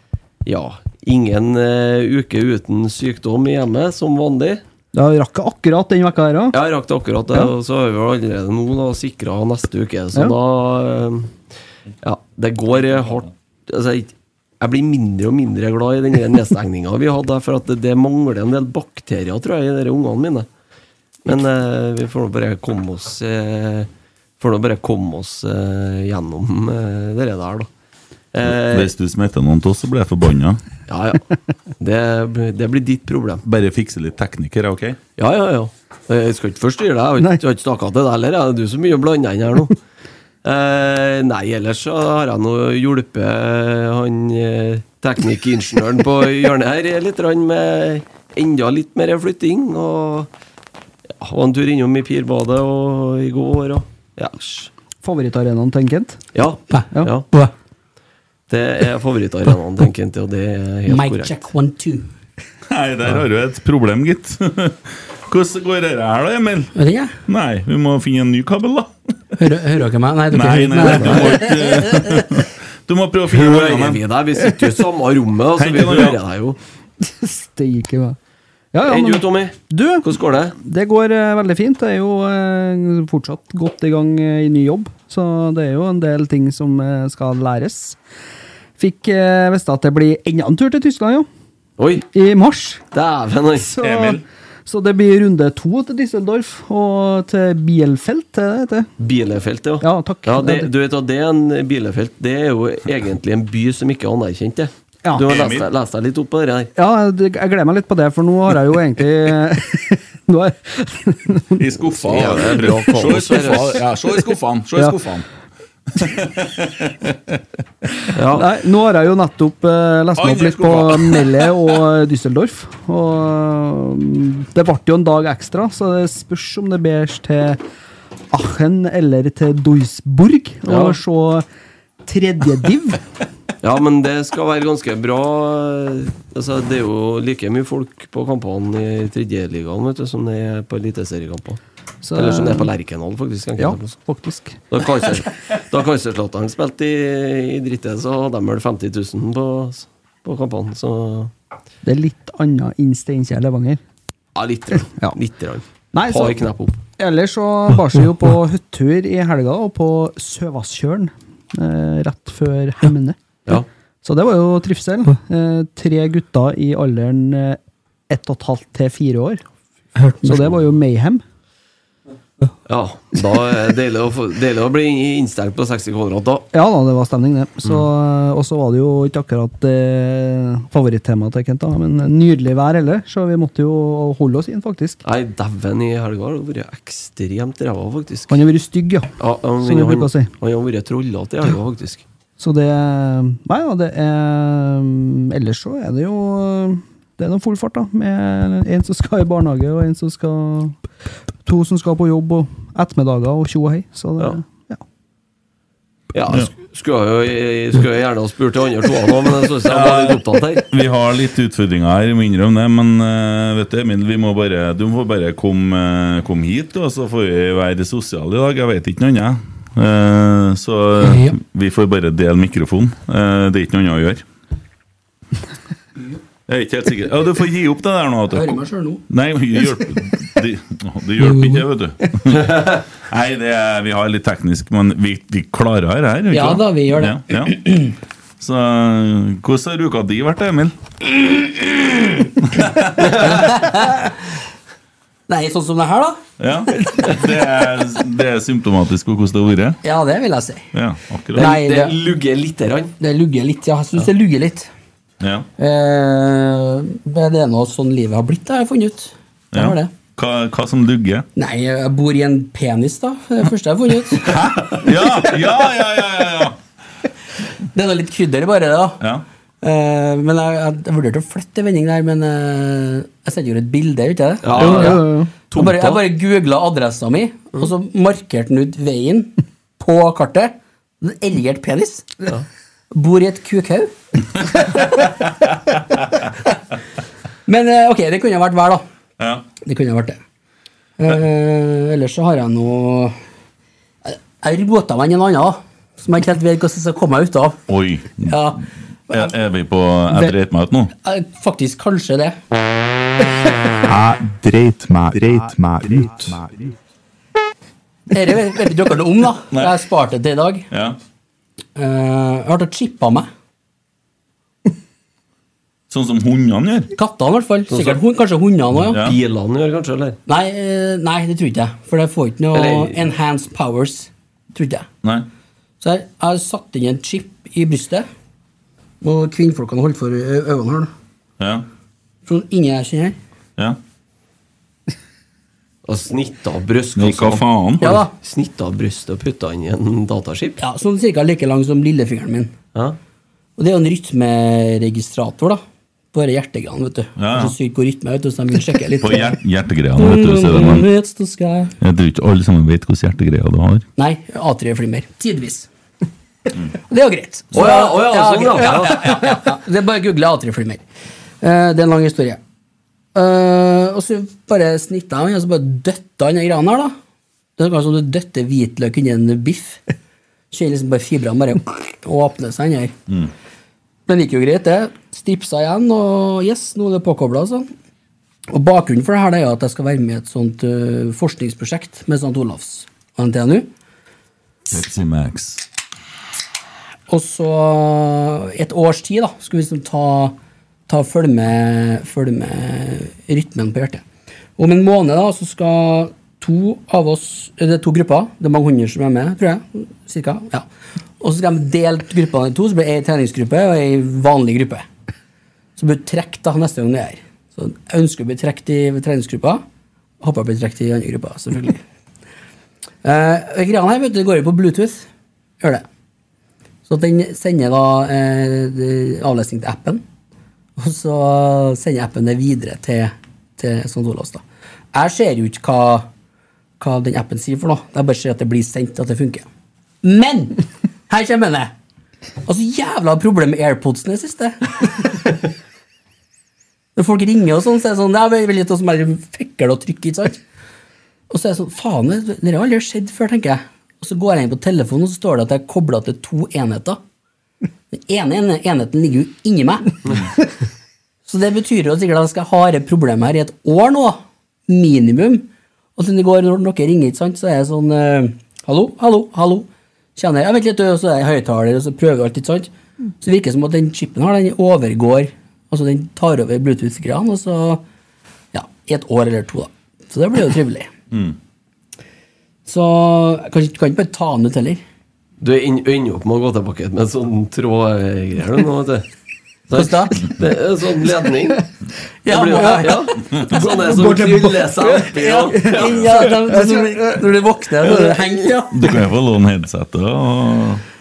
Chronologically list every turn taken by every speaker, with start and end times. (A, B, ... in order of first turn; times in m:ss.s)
0:00.4-0:04.6 A
0:04.9-0:06.6 B
0:06.5-0:11.3 A
0:12.0-0:20.5 A
0:21.2-0:23.9 A
0:24.4-0:27.7 A
0:28.3-0:28.9 A
0:28.4-0:30.6 C
0:30.9-0:31.2 A
0:31.8-0:33.4 A
0:33.4-0:35.0 C
0:35.2-0:39.8 A
0:40.4-0:50.3 A
0:51.2-0:54.7 A
0:55.0-0:56.2 B
0:56.3-0:57.3 A
0:56.7-0:57.5 D
0:58.5-1:01.4 A
1:00.9-1:02.1 D
1:02.7-1:06.7 C
1:06.8-1:07.1 D
1:07.3-1:08.9 C
1:09.4-1:12.2 D
1:10.3-1:14.0 C
1:10.8-1:11.4 B
1:13.3-1:16.6 A
1:15.6-1:16.2 C
1:17.1-1:18.2 B
1:18.7-1:28.0 B
1:18.8-1:20.6 A
1:28.8-1:31.3 B
1:31.8-1:32.1 A
1:32.1-1:32.8 B
1:32.9-1:33.7 A
1:33.6-1:38.9 B
1:33.8-1:34.2 C
1:39.0-1:46.7 A
1:39.8-1:40.7 B
1:45.0-1:45.3 B
1:45.2-1:45.7 C
1:46.8-1:52.3 B
1:51.6-1:55.2 C
1:52.1-1:53.8 A
1:53.1-1:53.6 B
1:55.9-1:57.4 C
1:58.1-1:58.5 A
1:58.3-2:07.6 B
2:00.2-2:01.8 C
2:08.3-2:11.4 B
2:10.7-2:11.0 A
2:12.0-2:13.0 B
2:13.6-2:21.6 A
2:22.0-2:22.7 B
2:22.1-2:24.1 A
2:23.6-2:24.6 B
2:24.7-2:31.3 A
2:31.8-2:33.8 B
2:34.4-2:36.8 A
2:35.9-2:43.2 B
2:44.0-2:49.4 B
2:50.0-2:50.5 D
2:50.2-2:51.2 B
2:52.7-2:56.4 A
2:56.5-3:05.0 B
3:05.0-3:08.4 A
3:08.3-3:10.3 B
3:09.2-3:12.0 A
3:12.4-3:20.8 B
3:21.4-3:24.8 B
3:26.1-3:30.6 A
3:29.7-3:44.2 C
3:41.0-3:41.3 D
3:46.5-3:48.6 C
3:48.3-3:49.0 D
3:49.1-3:57.6 C
3:51.3-3:51.6 D
3:56.3-3:57.9 D
3:58.4-4:00.8 C
4:02.4-4:03.5 C
4:03.3-4:04.1 D
4:05.3-4:06.2 D
4:06.4-4:09.8 C
4:09.8-4:10.7 D
4:10.7-4:11.5 C
4:11.4-4:12.0 D
4:11.4-4:12.9 A
4:13.0-4:14.7 D
4:15.2-4:15.4 C
4:15.6-4:19.9 D
4:19.5-4:21.2 C
4:21.4-4:24.3 D
4:24.2-4:26.6 C
4:27.7-4:29.0 D
4:29.6-4:35.0 D
4:34.4-4:36.0 A
4:34.6-4:35.3 B
4:35.5-4:42.1 D
4:42.9-4:43.9 D
4:47.5-4:48.8 D
4:49.2-4:49.4 C
4:49.6-4:50.2 D
4:51.0-4:53.2 D
4:54.0-4:57.6 D
4:57.7-4:58.5 C
4:58.2-4:59.3 D
4:59.1-5:00.9 C
5:01.0-5:02.4 D
5:03.9-5:06.3 E
5:08.1-5:10.7 D
5:10.7-5:11.0 C
5:11.8-5:13.3 D
5:15.9-5:16.9 C
5:16.9-5:19.0 D
5:17.7-5:18.0 A
5:18.9-5:19.2 C
5:18.9-5:20.2 A
5:20.3-5:24.9 D
5:22.5-5:23.0 A
5:25.8-5:28.1 D
5:29.0-5:30.9 D
5:31.4-5:31.6 C
5:32.3-5:33.2 D
5:35.8-5:40.6 A
5:37.0-5:38.0 C
5:37.8-5:38.1 D
5:40.6-5:42.5 D
5:43.6-5:45.6 D
5:46.1-5:49.4 D
5:47.2-5:47.6 C
5:49.0-5:50.9 C
5:50.0-5:51.7 D
5:51.8-5:53.8 C
5:54.0-5:55.7 D
5:56.9-6:00.8 D
5:57.5-5:59.3 A
6:01.4-6:02.4 D
6:03.2-6:06.9 D
6:07.6-6:09.8 D
6:10.5-6:12.9 D
6:14.1-6:17.7 D
6:18.5-6:23.7 D
6:24.7-6:25.6 C
6:27.1-6:30.3 D
6:30.9-6:34.0 D
6:34.6-6:40.6 D
6:41.2-6:44.8 D
6:45.8-6:49.6 D
6:50.2-6:51.8 D
6:53.0-6:55.1 D
6:56.9-7:00.0 D
7:00.8-7:04.4 D
7:04.9-7:06.1 D
7:06.8-7:09.4 D
7:10.0-7:11.7 D
7:12.4-7:15.3 D
7:17.0-7:20.4 D
7:21.3-7:27.0 D
7:27.9-7:30.0 D
7:31.3-7:42.7 D
7:43.2-7:47.8 D
7:48.5-7:50.9 D
7:52.7-7:54.8 D
7:55.4-7:59.1 A
7:59.7-8:01.7 A
7:59.8-8:00.2 D
8:02.2-8:03.1 D
8:02.3-8:05.9 A
8:03.6-8:05.8 B
8:05.1-8:08.9 D
8:05.8-8:06.1 C
8:06.4-8:07.2 B
8:08.7-8:10.8 C